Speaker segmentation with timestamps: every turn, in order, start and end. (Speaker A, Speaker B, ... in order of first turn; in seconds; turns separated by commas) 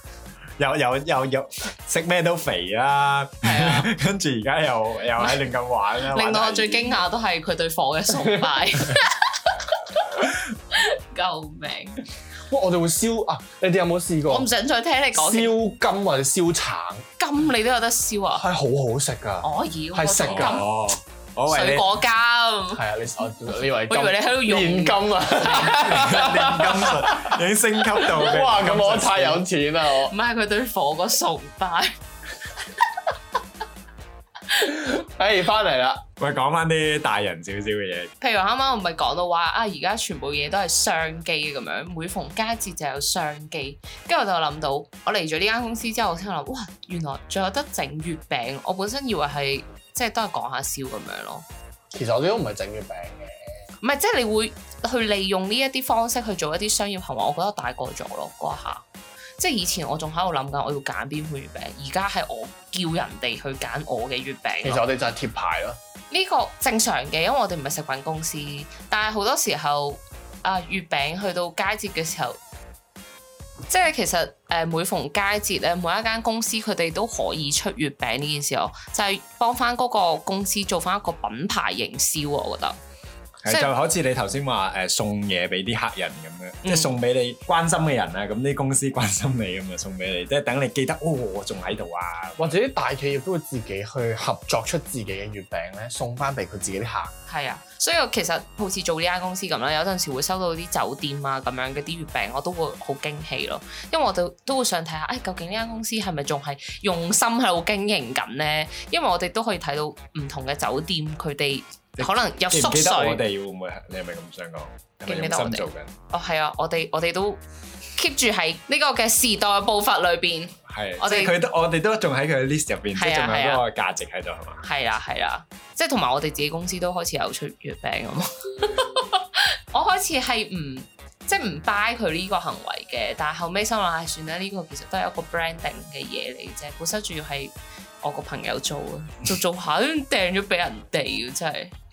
Speaker A: 0.6-7.0, Speaker B: 3.4-3.9, Speaker B: 5.2-5.5, Speaker B: 6.0-12.0, Speaker C: 8.2-8.7, Speaker C: 12.5-14.5, Speaker B: 14.3-15.5, Speaker C: 15.1-17.1, Speaker B: 17.2-18.4, Speaker C: 18.4-20.6, Speaker B: 19.4-20.7, Speaker A: 20.3-21.9, Speaker B: 21.5-22.8, Speaker C: 22.7-27.4, Speaker B: 23.5-26.3, Speaker A: 25.5-29.4, Speaker C: 27.9-30.1, Speaker B: 29.9-31.9, Speaker C: 34.6-36.0, Speaker A: 36.2-38.1, Speaker B: 38.2-51.5, Speaker C: 51.9-53.4, Speaker B: 53.8-58.9, Speaker B: 59.4-64.8, Speaker C: 64.6-65.8, Speaker B: 66.1-72.4, Speaker B: 73.7-82.8, Speaker A: 83.4-92.6, Speaker B: 83.5-83.7, Speaker B: 86.6-86.9, Speaker C: 92.4-97.1, Speaker B: 97.3-113.2, Speaker A: 112.0-115.9, Speaker B: 115.0-117.4, Speaker B: 118.0-121.3, Speaker A: 120.7-124.6, Speaker B: 123.0-123.6, Speaker B: 124.6-141.7